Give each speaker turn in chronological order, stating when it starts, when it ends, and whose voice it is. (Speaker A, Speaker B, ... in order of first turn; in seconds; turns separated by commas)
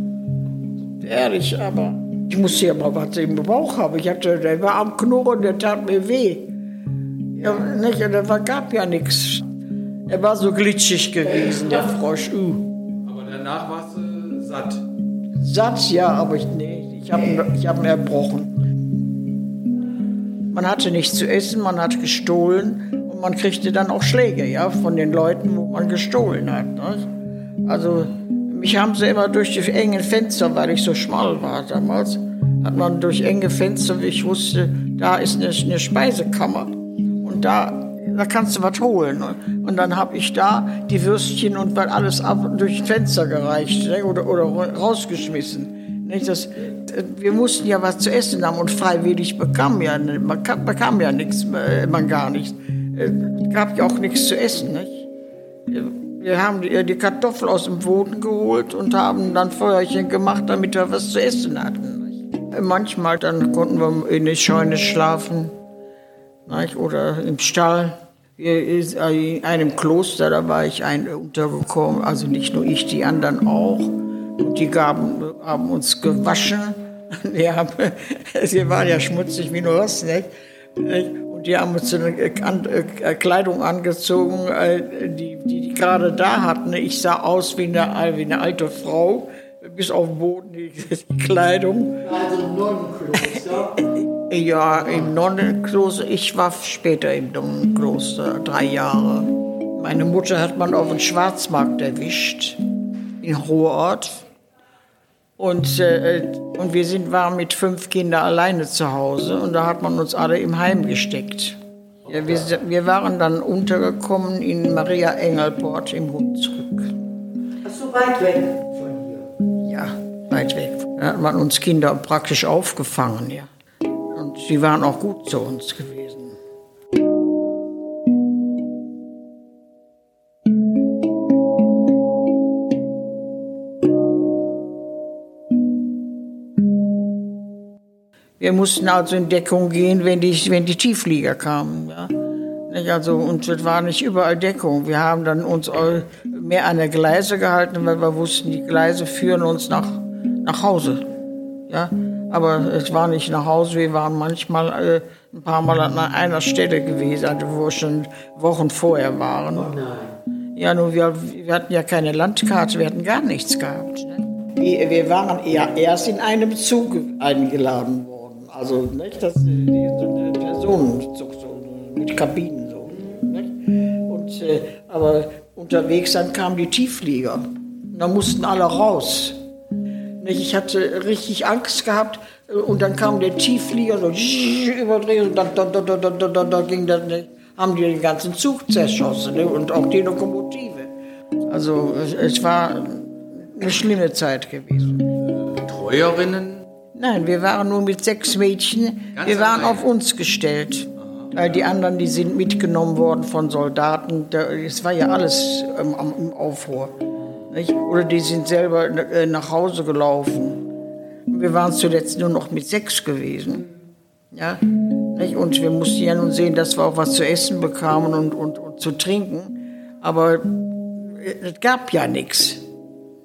Speaker A: 1.0-6.5, Speaker A: 7.4-9.5, Speaker A: 10.1-12.7, Speaker B: 13.1-14.8, Speaker A: 15.4-18.6, Speaker A: 20.5-27.1, Speaker A: 27.6-55.1, Speaker A: 55.7-65.5, Speaker A: 66.5-92.1, Speaker C: 92.0-93.9, Speaker A: 93.8-102.6, Speaker A: 103.2-104.2, Speaker A: 105.4-116.9, Speaker C: 117.6-119.3, Speaker A: 119.6-123.5, Speaker A: 124.1-126.4, Speaker A: 138.4-142.2, Speaker A: 142.7-151.1, Speaker A: 151.7-159.8, Speaker C: 159.6-160.2, Speaker A: 160.6-179.4, Speaker A: 180.2-190.9, Speaker A: 191.5-195.1, Speaker B: 195.2-196.7, Speaker A: 196.9-207.0, Speaker B: 199.2-199.8, Speaker B: 201.1-201.4, Speaker A: 207.5-210.7, Speaker A: 211.3-213.7, Speaker A: 214.3-222.6